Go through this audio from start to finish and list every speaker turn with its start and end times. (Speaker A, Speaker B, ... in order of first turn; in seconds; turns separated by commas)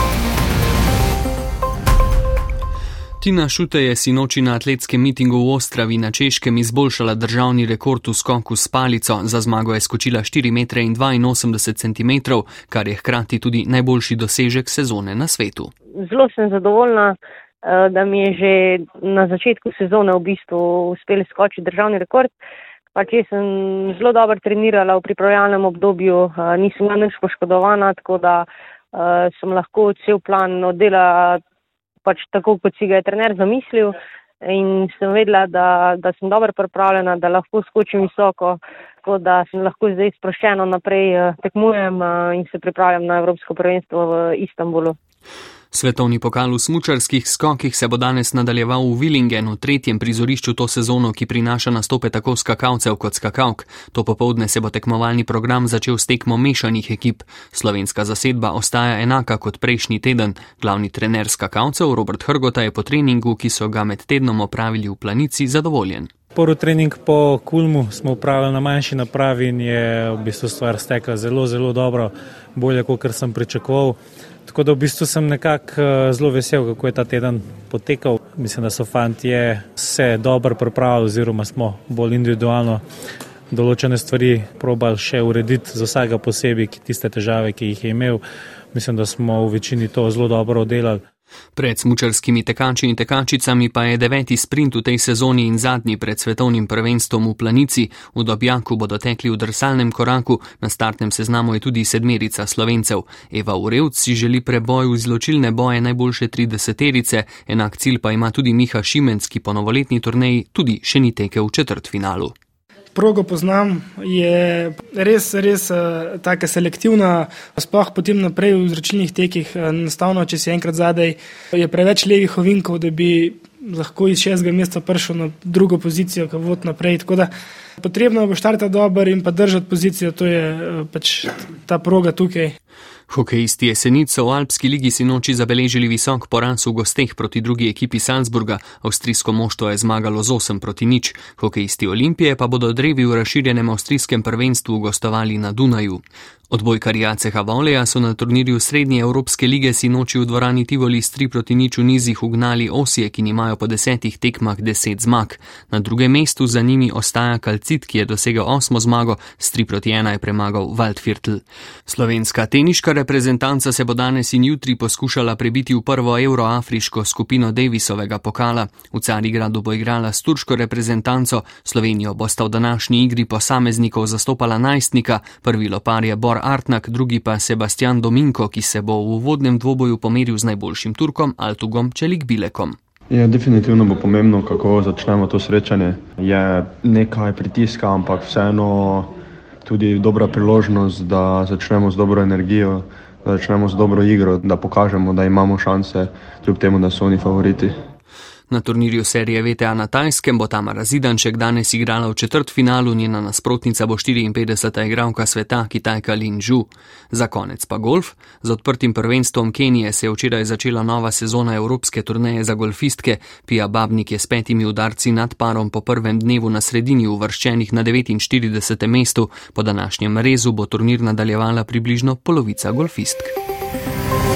Speaker A: 3.2-15.7, Speaker B: 16.1-22.3, Speaker B: 22.9-31.4, Speaker B: 32.0-45.0, Speaker A: 45.7-66.1, Speaker C: 66.3-82.8, Speaker C: 83.5-88.2, Speaker C: 88.7-91.0, Speaker A: 91.6-112.3, Speaker D: 113.0-127.3, Speaker D: 127.8-132.5, Speaker A: 133.1-182.8, Speaker E: 183.1-189.1, Speaker E: 189.7-197.7, Speaker A: 198.5-223.3